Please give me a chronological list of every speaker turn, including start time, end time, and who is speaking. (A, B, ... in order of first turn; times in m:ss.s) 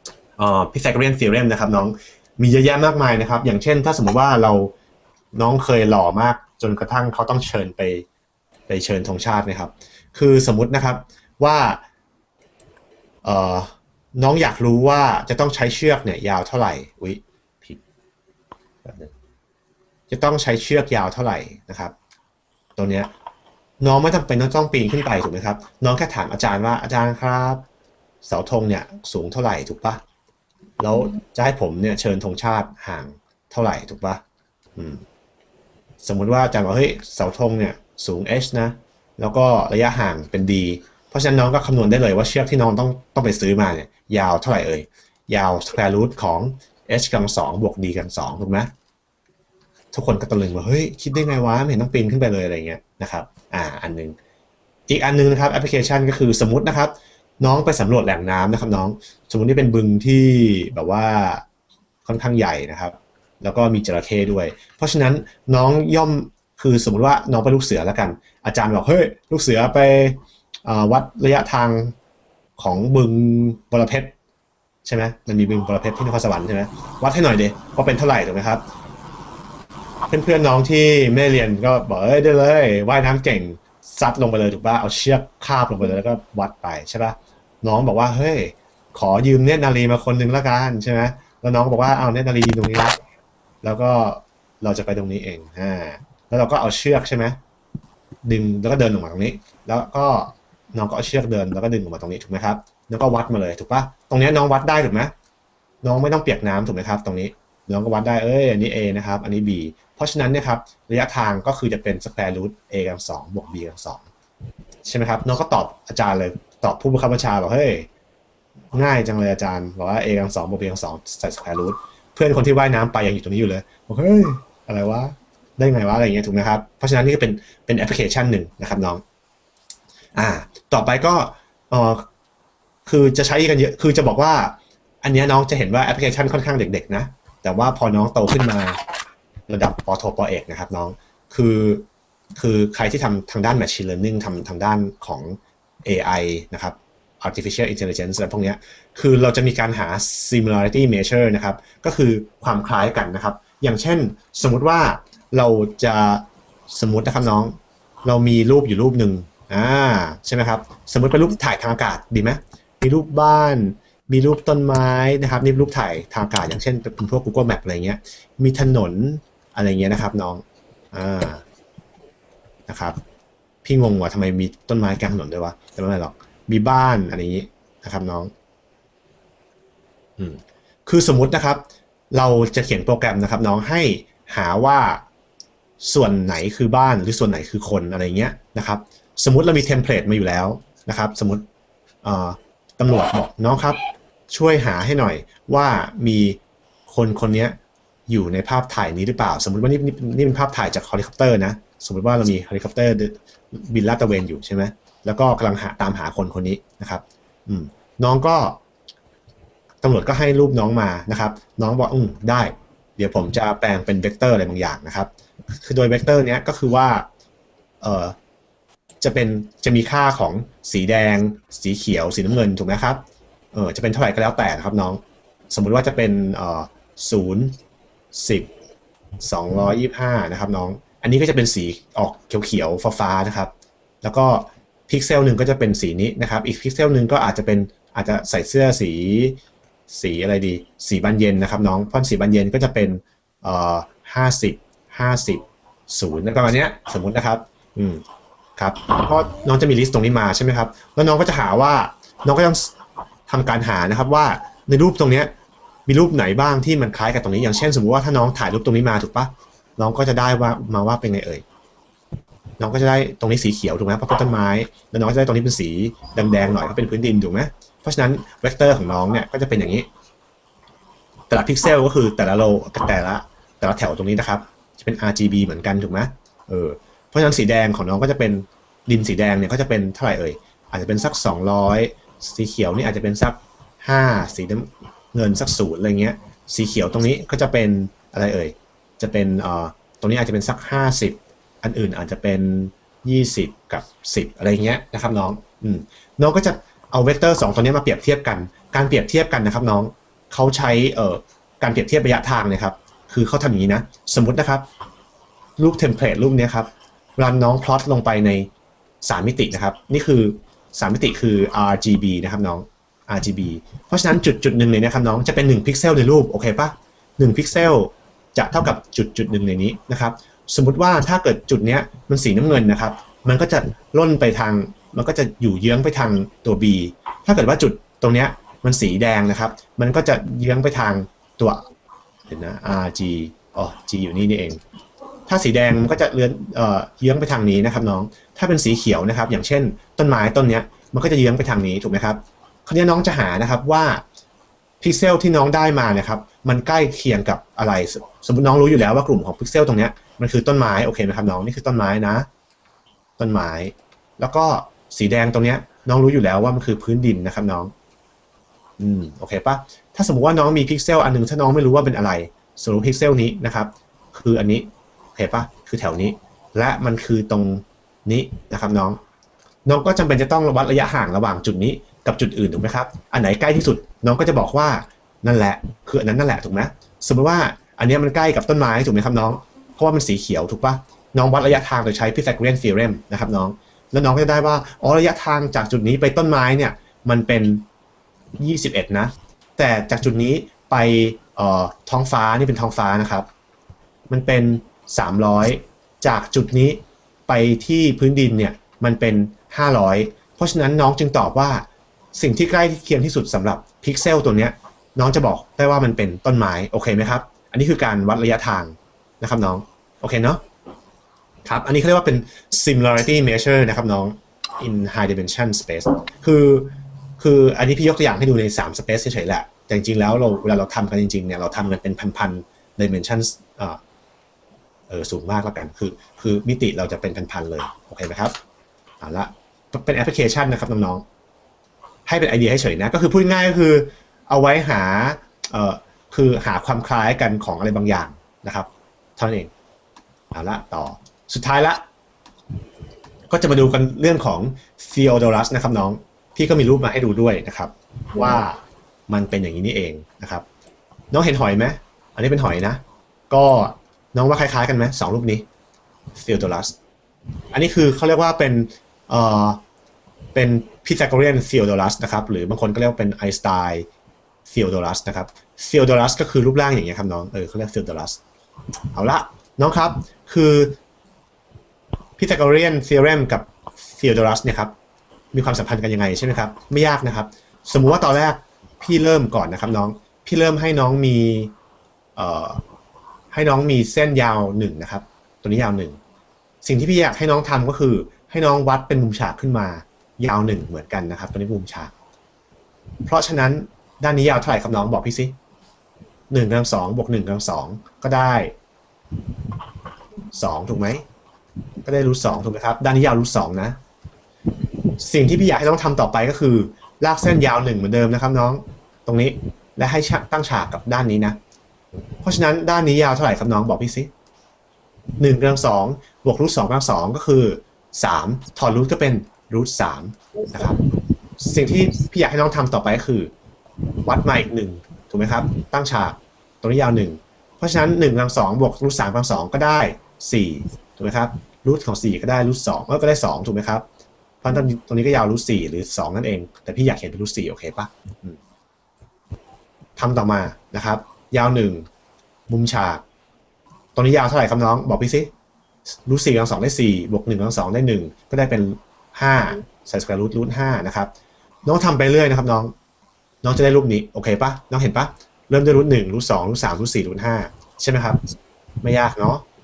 0:00.4-0:04.7 A
0:05.3-0:08.1 A
0:08.7-0:11.8 A
0:13.2-0:17.8 A
0:18.8-0:19.1 A
0:20.1-0:21.9 A
0:22.8-0:23.1 A
0:23.8-0:27.6 A
0:28.2-0:30.0 A
0:30.8-0:34.2 A
0:34.8-0:35.0 A
0:36.0-0:48.7 A
0:49.9-0:54.2 A
0:54.9-1:01.4 A
1:02.0-1:12.0 A
1:12.6-1:14.1 A
1:14.8-1:18.6 A
1:20.1-1:33.0 A
1:33.6-1:37.4 A
1:38.2-1:45.1 A
1:45.8-1:54.1 A
1:54.8-1:57.9 A
1:58.7-2:09.0 A
2:10.2-2:12.1 A
2:12.9-2:18.8 A
2:19.5-2:51.4 A
2:52.7-2:53.0 A
2:53.6-2:58.3 A
3:00.2-3:05.0 A
3:05.8-3:11.4 A
3:12.0-3:13.8 A
3:14.3-3:17.6 A
3:18.1-3:28.6 A
3:29.8-3:37.1 A
3:37.8-3:38.2 A
3:39.0-3:43.0 A
3:43.5-3:47.6 A
3:48.1-3:48.5 A
3:49.2-3:53.5 A
3:54.0-3:59.4 A
3:59.9-4:08.0 A
4:08.6-4:12.7 A
4:13.3-4:15.3 A
4:15.9-4:21.4 A
4:22.6-4:29.9 A
4:31.3-5:04.6 A
5:05.6-5:08.5 A
5:09.0-5:31.6 A
5:32.3-5:34.6 A
5:35.3-5:44.0 A
5:44.8-5:52.3 A
5:53.2-5:57.7 A
5:58.8-6:09.0 A
6:09.6-6:27.6 A
6:28.4-6:33.3 A
6:34.1-6:50.4 A
6:51.4-7:03.8 A
7:04.9-7:08.4 A
7:09.0-7:11.0 A
7:12.1-7:19.5 A
7:20.3-7:21.8 A
7:23.3-7:30.4 A
7:31.1-7:35.5 A
7:36.2-7:36.7 A
7:37.5-7:39.6 A
7:40.3-7:43.9 A
7:44.5-7:48.2 A
7:48.9-7:50.8 A
7:52.2-7:54.7 A
7:55.3-8:01.5 A
8:02.2-8:02.6 A
8:03.3-8:06.0 A
8:06.6-8:11.9 A
8:13.1-8:15.3 A
8:16.3-8:18.5 A
8:20.3-8:21.0 A
8:21.8-8:23.8 A
8:25.0-8:31.4 A
8:32.2-8:34.1 A
8:35.2-8:40.8 A
8:41.4-8:43.3 A
8:44.0-8:53.8 A
8:54.4-8:58.4 A
9:00.0-9:01.9 A
9:02.5-9:03.0 A
9:04.0-9:05.3 A
9:06.0-9:11.1 A
9:11.6-9:12.7 A
9:13.4-9:18.2 A
9:18.8-9:19.4 A